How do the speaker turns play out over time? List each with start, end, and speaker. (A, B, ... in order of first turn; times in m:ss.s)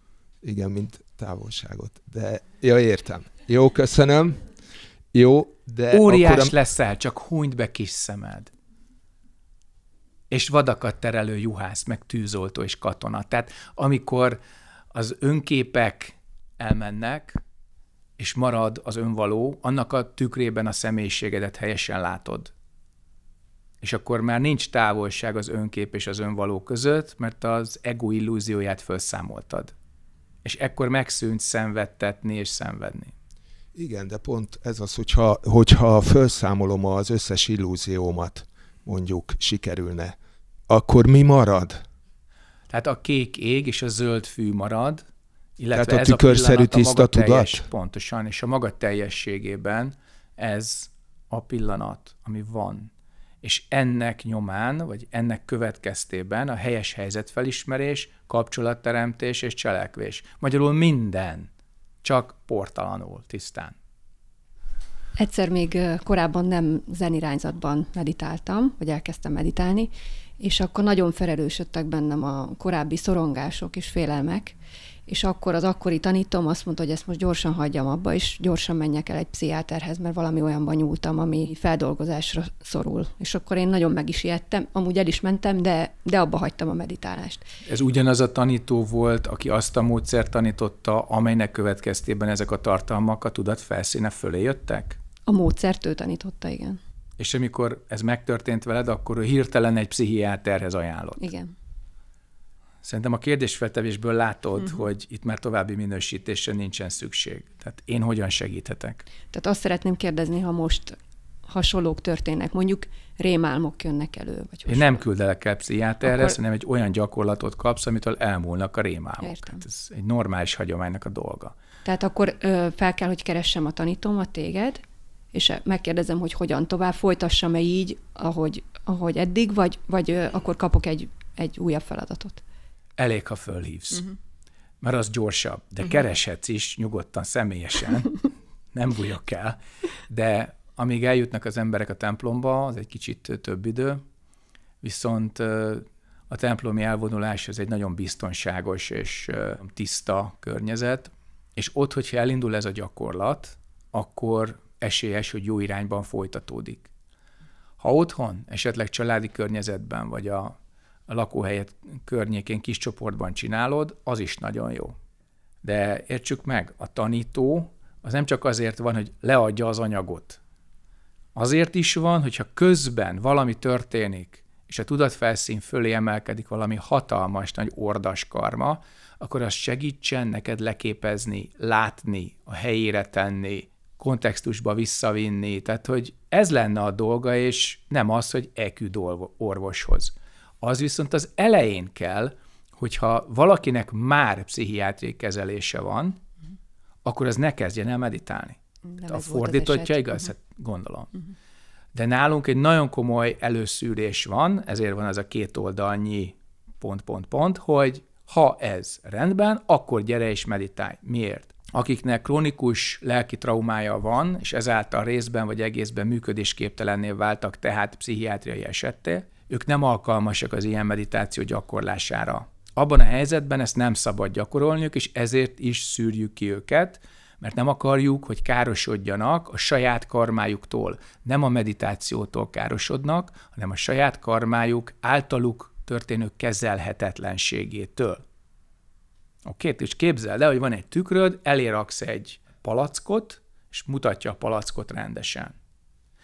0:00.4-0:04.6 A
0:05.1-0:06.6 A
0:05.9-0:08.5 B
0:10.3-0:14.4 B
0:14.9-0:17.4 B
0:18.2-0:22.5 B
0:23.8-0:29.7 B
0:30.4-0:33.1 B
0:33.8-0:40.2 A
0:40.7-0:41.8 A
0:42.7-0:45.1 B
0:45.6-0:52.9 B
0:45.7-0:47.7 A
0:53.4-1:01.5 B
1:02.0-1:03.8 B
1:05.2-1:27.4 C
1:27.6-1:35.0 B
1:35.3-1:36.8 C
1:37.2-1:41.3 B
1:41.2-1:41.5 C
1:42.8-1:49.0 B
1:49.3-1:55.0 C
1:54.7-2:01.5 B
1:56.0-1:56.4 C
1:59.2-1:59.6 C
2:01.8-2:12.4 C
2:13.0-2:14.1 B
2:14.8-2:18.2 B
2:18.7-2:24.0 B
2:24.8-2:36.9 B
2:37.8-2:40.6 B
2:41.1-2:45.0 B
2:45.6-2:50.4 B
2:51.4-3:16.2 B
3:17.0-3:21.1 B
3:18.9-3:20.3 C
3:21.9-3:58.2 B
3:59.5-4:05.6 B